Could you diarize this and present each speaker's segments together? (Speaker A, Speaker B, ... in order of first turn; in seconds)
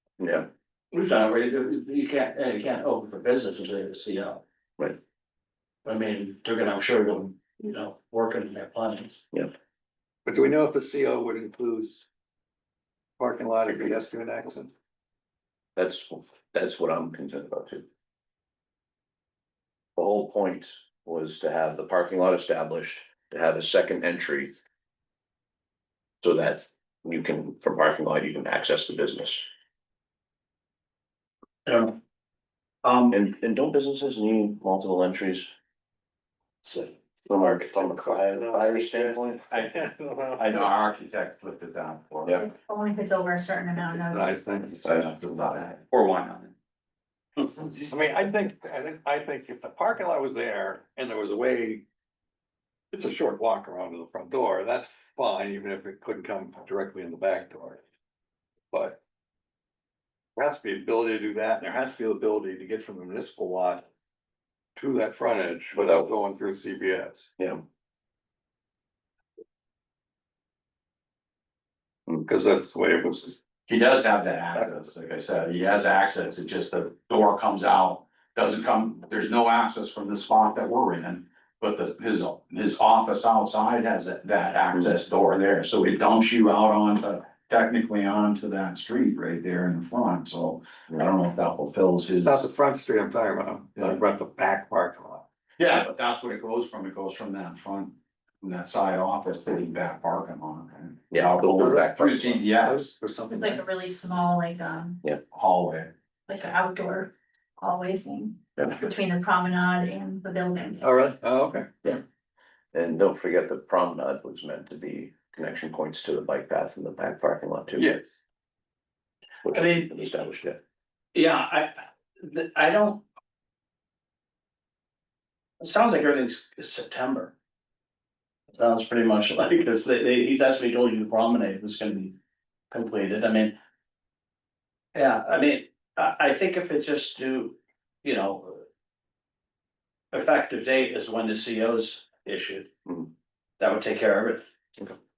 Speaker A: 0.2-0.5, 15.8-17.9, 20.0-24.6, 26.2-29.5, 33.1-35.5, 36.6-39.5, 44.8-45.7, 65.8-66.1, 101.1-102.5, 112.7-117.9, 119.4-120.6
Speaker B: 0.9-4.4, 5.8-9.2, 31.7-32.0, 32.8-33.2, 119.5-119.9, 121.1-123.0, 125.6-127.3, 128.5-132.2, 132.7-133.6, 134.9-138.7, 140.1-142.7, 143.6-144.9
Speaker C: 10.2-12.1, 13.2-14.7, 39.7-40.5, 43.9-44.8, 47.7-51.9, 52.9-57.8, 58.7-59.0, 60.4-63.9, 64.8-67.3, 72.3-73.4, 92.2-95.2, 101.6-102.0, 102.6-103.6, 110.8-111.7, 117.8-118.2
Speaker D: 40.4-42.4, 44.9-46.5, 73.7-92.5, 95.6-103.0, 105.3-105.9
Speaker E: 42.3-44.3, 103.3-105.0, 106.3-110.9